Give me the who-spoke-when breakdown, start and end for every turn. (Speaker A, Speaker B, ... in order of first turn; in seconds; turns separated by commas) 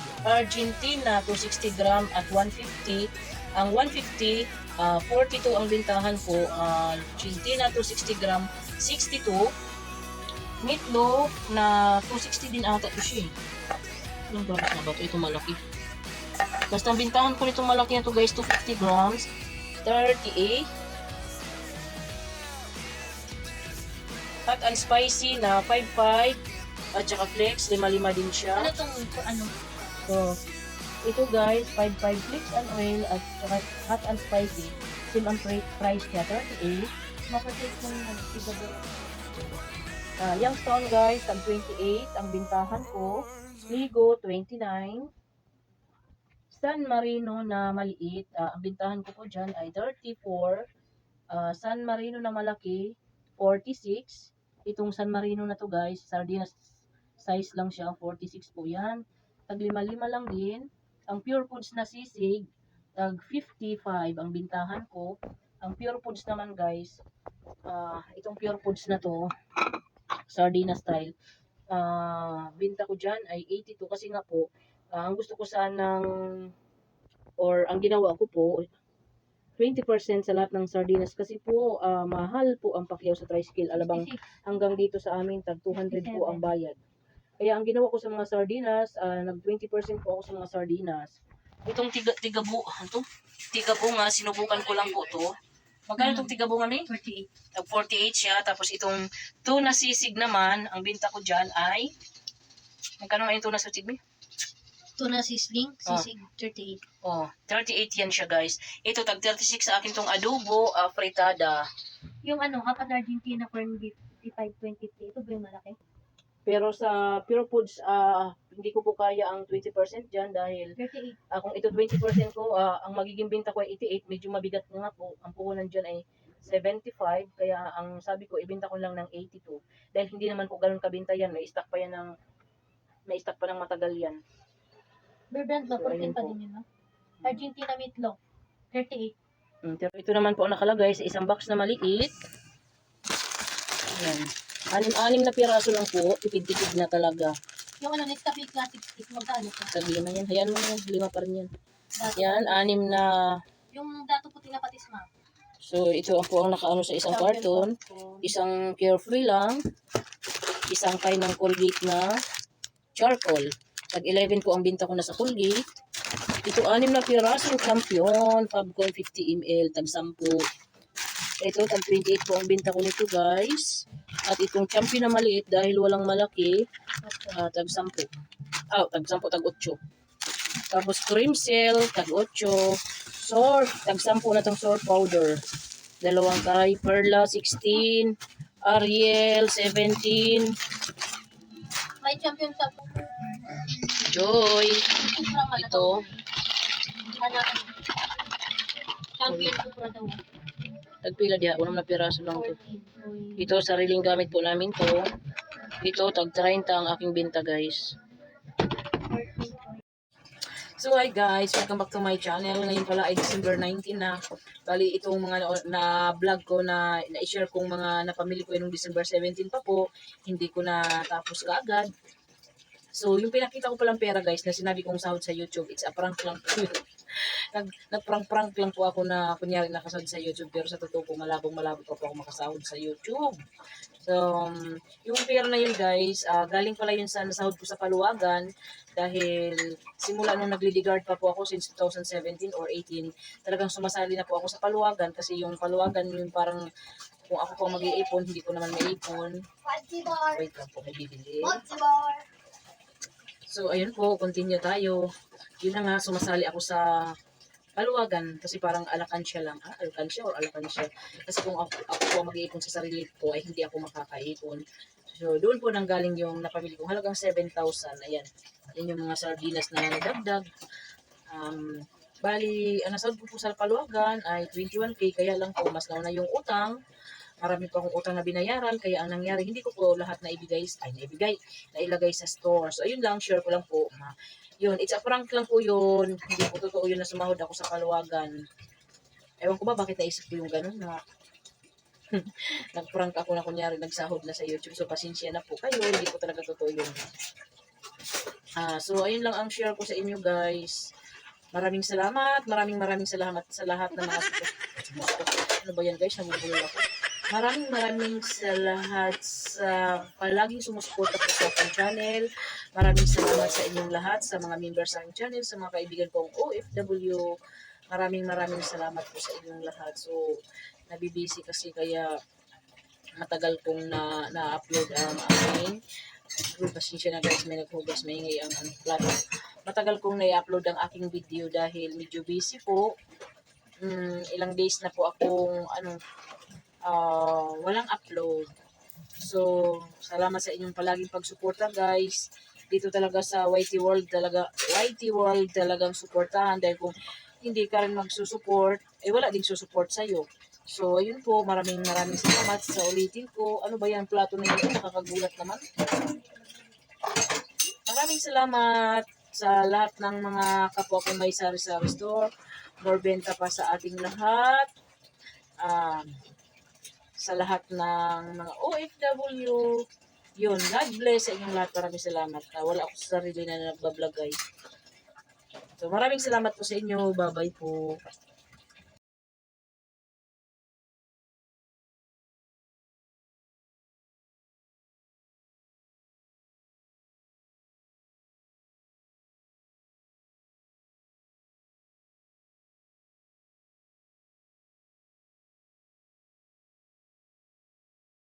Speaker A: 0.2-9.5, Speaker A: 10.6-13.3, Speaker A: 14.3-15.6, Speaker A: 16.7-19.3, Speaker A: 19.8-20.7, Speaker A: 24.5-26.4, Speaker A: 26.9-28.7, Speaker B: 28.5-29.5, Speaker A: 30.1-30.4, Speaker A: 31.1-36.9, Speaker B: 37.3-39.0, Speaker A: 40.2-45.1, Speaker A: 46.5-50.7, Speaker A: 51.3-67.0, Speaker A: 67.7-69.3, Speaker A: 70.3-71.1, Speaker A: 71.7-76.5, Speaker A: 77.4-78.7, Speaker A: 79.6-86.8, Speaker B: 83.8-84.2, Speaker B: 85.7-86.5, Speaker A: 87.4-95.3, Speaker A: 95.9-96.9, Speaker B: 96.0-96.3, Speaker B: 96.9-97.3, Speaker A: 97.5-101.9, Speaker A: 103.0-104.0, Speaker B: 105.0-106.8, Speaker A: 107.0-111.7, Speaker B: 112.2-115.8, Speaker A: 116.5-120.7, Speaker B: 120.8-121.2, Speaker A: 121.3-132.1, Speaker A: 133.1-134.2, Speaker B: 135.3-136.6, Speaker A: 135.6-136.3, Speaker B: 137.2-138.2, Speaker B: 138.7-139.2, Speaker A: 139.6-142.1, Speaker A: 144.0-147.3, Speaker B: 147.8-149.7, Speaker A: 149.7-151.5, Speaker B: 152.0-152.8, Speaker A: 152.1-153.4, Speaker B: 153.7-155.1, Speaker A: 155.6-159.6, Speaker B: 157.1-158.3, Speaker A: 160.7-162.1, Speaker A: 163.0-165.6, Speaker A: 166.4-170.4, Speaker A: 171.4-176.6, Speaker B: 177.1-177.3, Speaker A: 177.3-178.1, Speaker A: 178.7-179.8, Speaker A: 180.7-185.4, Speaker A: 186.0-190.5, Speaker B: 192.0-193.7, Speaker A: 193.9-194.9, Speaker B: 194.9-196.2, Speaker A: 195.6-196.0, Speaker B: 197.1-197.9, Speaker B: 199.2-200.2, Speaker A: 199.3-199.5, Speaker A: 201.0-202.6, Speaker B: 202.3-203.6, Speaker A: 203.4-205.0, Speaker A: 205.8-207.9, Speaker B: 208.9-209.8, Speaker A: 210.8-221.9, Speaker A: 222.9-233.4, Speaker A: 234.0-246.7, Speaker A: 247.3-249.4, Speaker B: 249.7-250.2, Speaker A: 250.0-251.7, Speaker B: 251.6-252.2, Speaker A: 253.5-255.0, Speaker A: 255.6-256.9, Speaker A: 257.8-270.4, Speaker A: 271.3-276.8, Speaker A: 277.4-288.3, Speaker A: 289.4-291.0, Speaker A: 292.1-297.0, Speaker A: 298.6-300.9, Speaker A: 301.5-317.3, Speaker A: 317.9-320.4, Speaker A: 320.9-322.1, Speaker A: 323.2-325.8, Speaker A: 326.4-332.9, Speaker A: 333.8-336.0, Speaker A: 336.9-338.5, Speaker A: 339.2-355.6, Speaker A: 357.9-362.3, Speaker A: 362.8-364.7, Speaker A: 365.6-366.2, Speaker A: 367.2-369.7, Speaker A: 370.4-374.4, Speaker A: 375.8-377.9